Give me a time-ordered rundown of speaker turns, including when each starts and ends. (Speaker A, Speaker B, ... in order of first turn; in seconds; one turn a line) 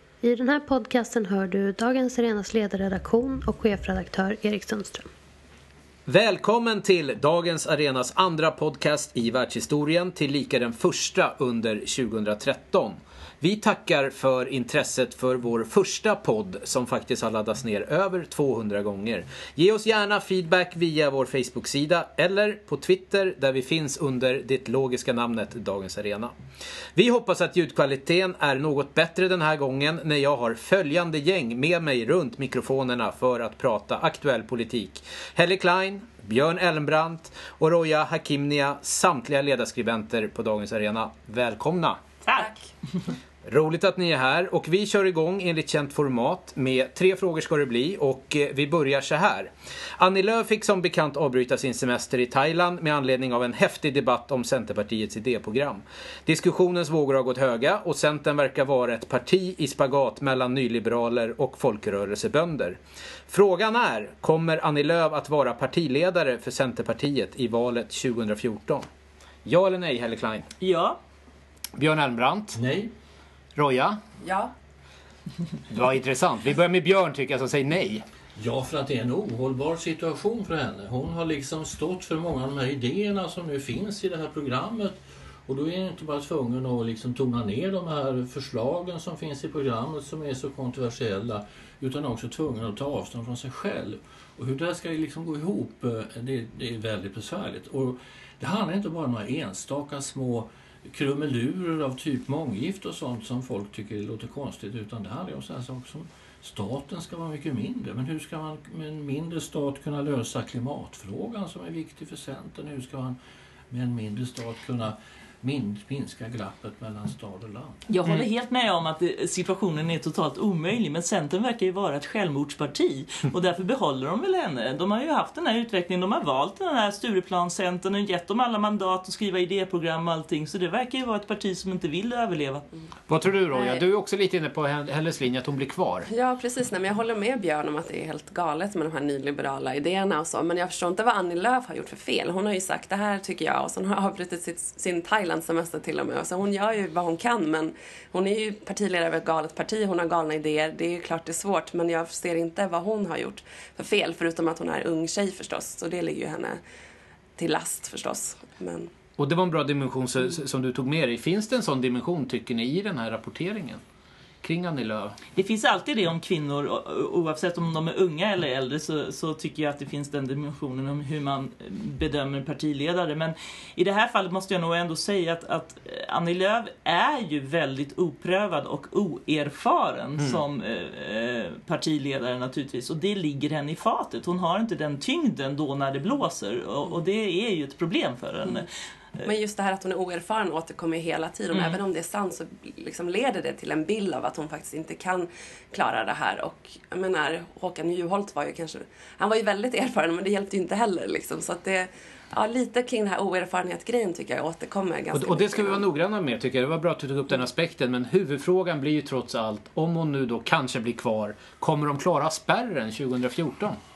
Speaker A: 0.2-5.1
Speaker B: 6.1-26.3
Speaker B: 26.9-42.0
Speaker C: 42.3-42.5
Speaker B: 43.5-68.9
Speaker B: 69.5-70.5
Speaker C: 70.6-71.0
Speaker B: 71.8-72.6
Speaker D: 72.5-72.9
Speaker B: 73.5-74.0
Speaker E: 74.2-74.5
Speaker B: 75.7-78.0
Speaker D: 78.4-113.2
Speaker D: 113.7-117.9
Speaker C: 117.9-132.7
Speaker B: 133.1-136.1
Speaker E: 133.5-133.8
Speaker E: 136.1-156.6
Speaker E: 157.4-158.9
Speaker B: 159.2-163.8
Speaker B: 164.4-165.2
Speaker C: 165.3-189.3
Speaker E: 189.2-205.8
Speaker C: 191.5-191.8
Speaker B: 205.1-213.8